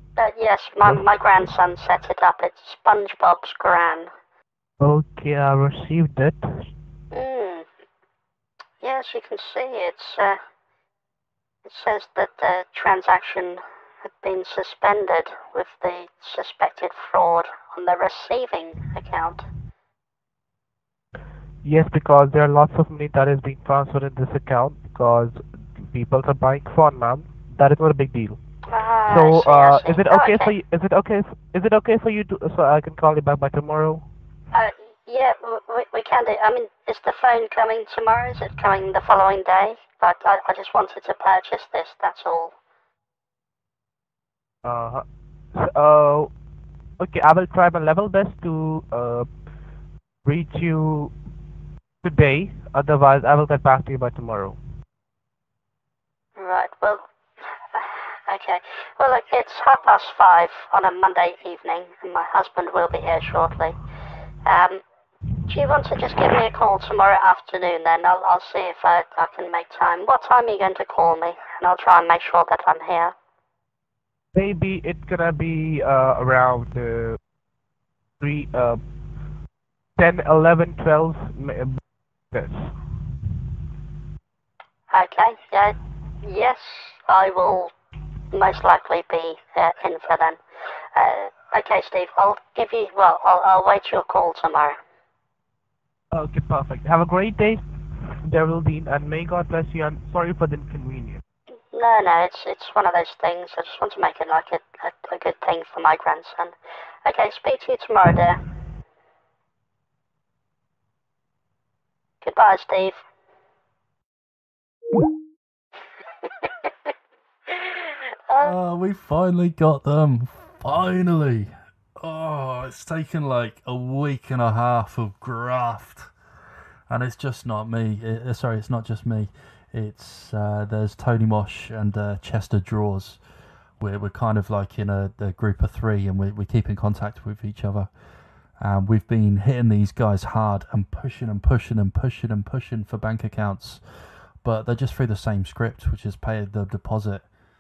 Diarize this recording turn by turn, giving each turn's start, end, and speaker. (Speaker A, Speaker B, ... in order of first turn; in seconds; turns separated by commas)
Speaker A: 0.2-4.1, Speaker B: 4.8-6.7, Speaker A: 7.1-7.7, Speaker A: 8.8-10.4, Speaker A: 11.7-13.6, Speaker A: 14.2-19.4, Speaker B: 21.6-28.4, Speaker A: 28.7-30.5, Speaker B: 29.1-34.0, Speaker A: 34.5-42.5, Speaker B: 44.6-45.0, Speaker B: 45.5-46.3, Speaker B: 47.0-49.3, Speaker B: 50.2-51.1, Speaker B: 52.0-54.6, Speaker A: 56.4-57.0, Speaker A: 57.7-63.8, Speaker A: 64.5-64.8, Speaker A: 65.5-73.1, Speaker B: 74.3-77.2, Speaker B: 78.2-78.8, Speaker B: 80.0-81.8, Speaker B: 82.3-82.7, Speaker A: 84.9-87.7, Speaker A: 88.3-90.4, Speaker A: 91.0-94.8, Speaker B: 96.1-97.6, Speaker B: 98.2-101.2, Speaker A: 101.7-108.4, Speaker A: 112.2-113.0, Speaker A: 116.2-116.7, Speaker A: 117.5-118.5, Speaker C: 118.4-126.1, Speaker C: 126.9-133.2, Speaker C: 133.8-137.9, Speaker C: 138.6-147.3